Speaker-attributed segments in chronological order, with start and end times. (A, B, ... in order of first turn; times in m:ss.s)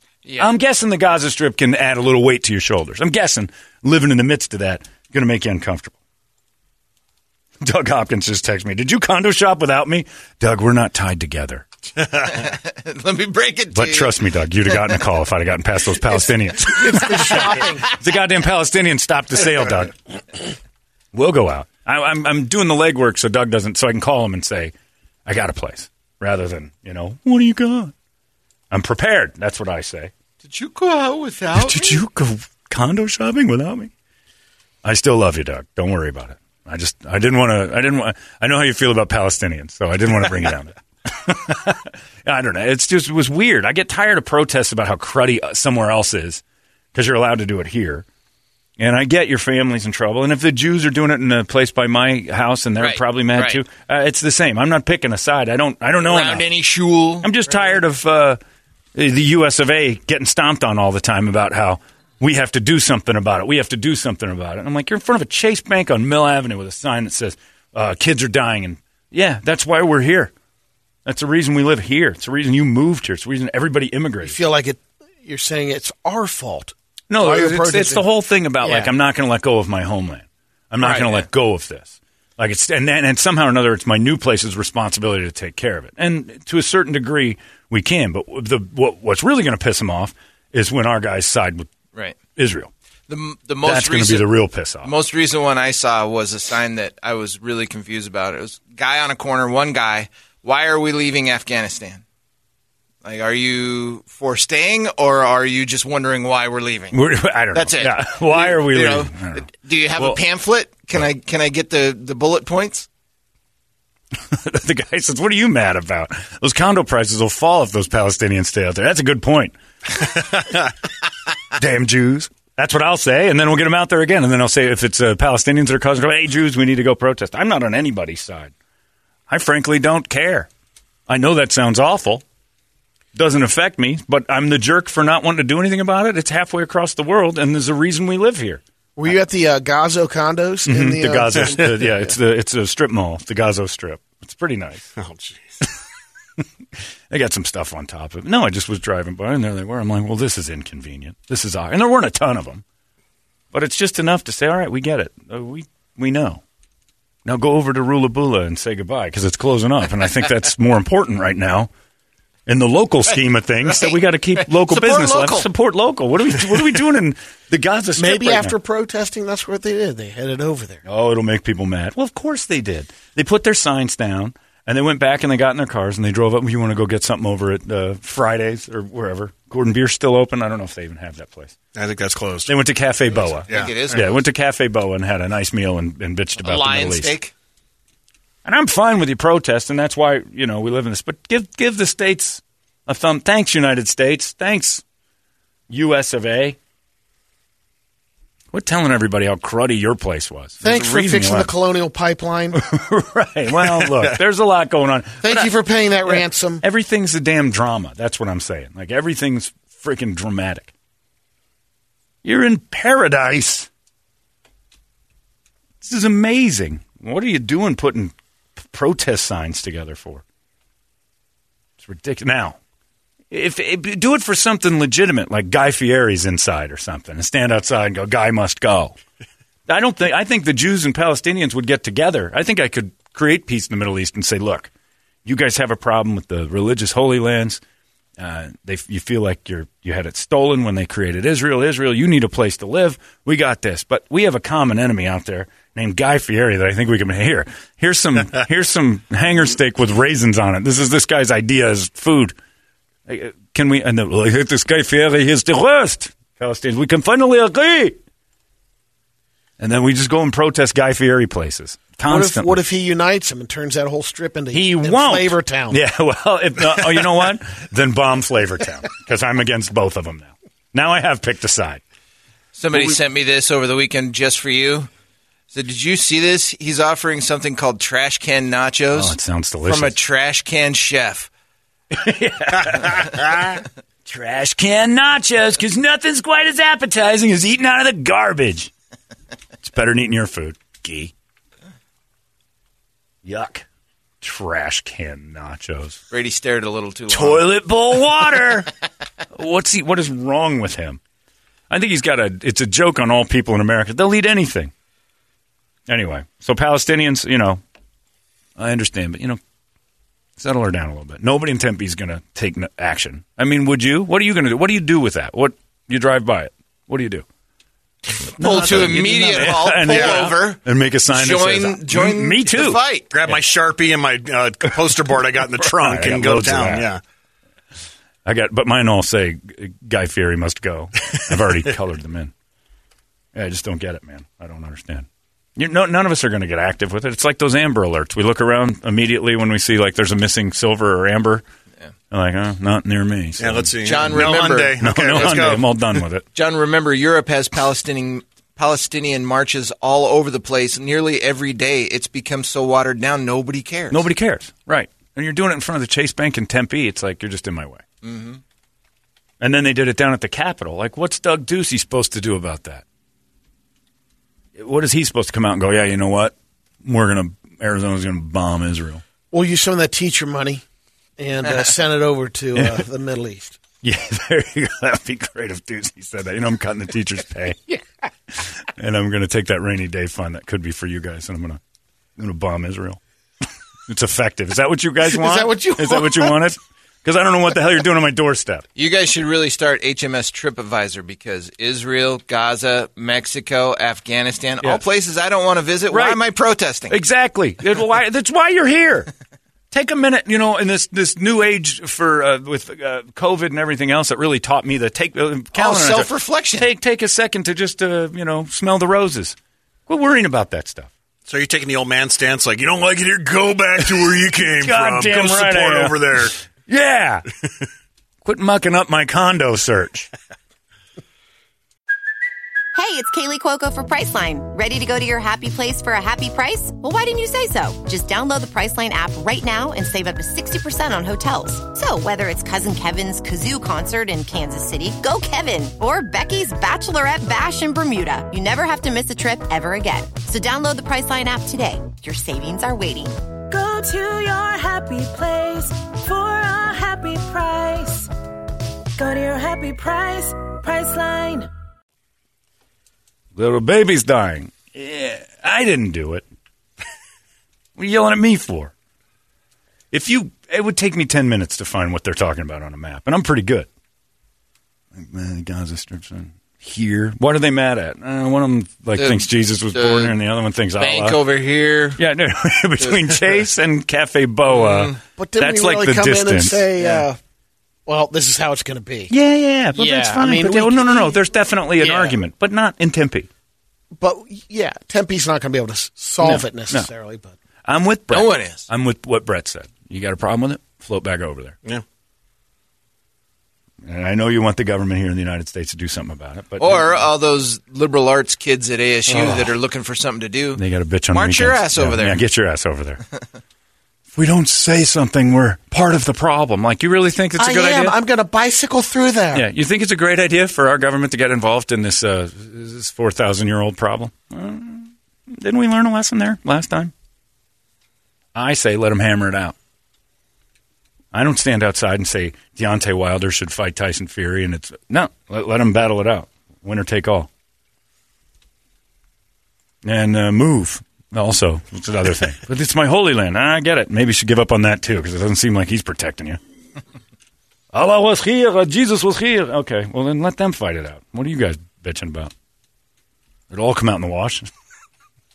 0:00.2-0:00.5 A
0:00.4-0:06.0 B
0:07.6-0:11.7 B
0:12.3-0:14.2 A
0:13.7-0:20.0 B
0:16.6-0:17.9 C
0:21.1-0:24.7 B
0:25.3-0:27.9 B
0:28.7-0:30.1 B
0:30.4-0:32.0 A
0:31.5-0:33.9 B
0:34.8-0:46.4 B
0:46.9-0:48.0 B
0:48.8-0:56.5 B
0:52.8-0:53.6 A
0:56.0-0:57.8 A
0:57.2-0:58.4 B
0:59.0-1:10.3 B
1:11.1-1:14.4 B
1:14.2-1:18.1 C
1:17.1-1:31.7 B
1:18.6-1:18.9 C
1:20.8-1:21.3 A
1:32.4-1:32.7 B
1:33.1-1:42.0 A
1:33.6-1:34.9 B
1:43.0-1:52.9 A
1:46.9-1:50.2 B
1:54.3-2:00.3 B
2:01.5-2:08.5 B
2:09.3-2:10.5 B
2:11.1-2:12.2 B
2:13.2-2:18.6 B
2:19.0-2:22.1 C
2:20.7-2:24.9 B
2:25.0-2:25.4 D
2:27.1-2:32.6 B
2:33.5-2:36.4 B
2:37.2-2:41.7 B
2:42.5-2:48.6 B
2:43.7-2:45.5 A
2:48.0-2:50.8 C
2:50.8-3:01.6 B
3:01.8-3:02.6 D
3:02.5-3:07.2 B
3:03.4-3:04.0 D
3:03.5-3:04.2 A
3:06.4-3:07.3 A
3:08.4-3:14.8 B
3:15.7-3:16.6 B
3:18.5-3:21.5 B
3:20.6-3:22.6 C
3:22.5-3:25.5 B
3:23.8-3:24.1 D
3:25.2-3:26.6 C
3:26.1-3:30.7 B
3:32.2-3:33.7 B
3:35.8-3:40.2 B
3:41.8-3:42.6 B
3:43.3-3:49.0 B
3:49.7-3:54.7 B
3:55.2-3:57.6 B
3:58.2-4:12.4 B
4:13.1-4:18.0 B
4:19.6-4:22.6 B
4:22.0-4:25.8 C
4:24.5-4:31.8 B
4:32.6-4:34.9 A
4:35.5-4:41.3 A
4:38.9-4:40.0 B
4:41.9-4:48.7 B
4:49.6-4:51.1 B
4:53.2-4:53.6 B
4:54.2-4:56.0 B
4:56.1-4:57.5 A
4:57.1-4:58.7 B
4:59.3-5:01.0 B
5:01.7-5:04.7 B
5:05.9-5:07.6 B
5:08.6-5:09.4 B
5:10.4-5:17.2 B
5:18.3-5:23.4 B
5:18.4-5:23.1 A
5:19.8-5:20.3 D
5:23.1-5:27.0 D
5:25.6-5:26.9 B
5:28.2-5:32.3 B
5:33.3-5:41.4 B
5:42.1-5:46.2 B
5:43.4-5:45.7 D
5:43.8-5:45.4 A
5:46.3-5:54.0 A
5:53.9-5:57.8 B
5:58.0-5:58.4 A
5:59.4-6:02.8 B
6:04.6-6:09.0 B
6:09.3-6:10.6 C
6:11.2-6:13.6 C
6:12.6-6:12.8 B
6:13.8-6:21.6 B
6:22.2-6:23.0 B
6:23.9-6:28.7 B
6:25.0-6:26.4 C
6:28.8-6:37.0 A
6:35.9-6:36.2 B
6:36.9-6:39.1 B
6:39.7-6:49.4 B
6:45.6-6:46.7 A
6:49.9-6:50.9 B
6:51.3-6:56.4 D
6:53.9-6:57.2 B
6:58.2-7:00.1 B
7:02.8-7:23.2 E
7:23.5-7:28.1 F
7:29.0-7:31.5 F
7:33.4-7:36.2 B
7:37.8-7:38.7 B
7:39.9-7:43.7 B
7:44.9-7:51.2 B
7:49.0-7:50.2 A
7:50.8-7:52.0 A
7:52.0-7:56.6 B
7:52.8-7:53.1 A
7:54.5-7:55.0 A
7:55.2-7:57.2 C
7:57.9-7:59.1 C
7:59.1-8:03.3 B
7:59.7-8:01.2 C
8:01.8-8:02.1 C
8:04.0-8:07.4 C
8:06.2-8:06.9 B
8:07.6-8:11.6 B
8:08.1-8:08.7 A
8:13.8-8:17.1 B
8:16.6-8:22.2 A
8:20.6-8:23.0 B
8:24.1-8:28.0 B
8:27.4-8:29.5 C
8:29.3-8:36.9 B
8:38.4-8:39.6 B
8:41.1-8:47.3 B
8:49.8-8:56.4 B
8:57.7-9:02.3 B
9:03.5-9:04.5 B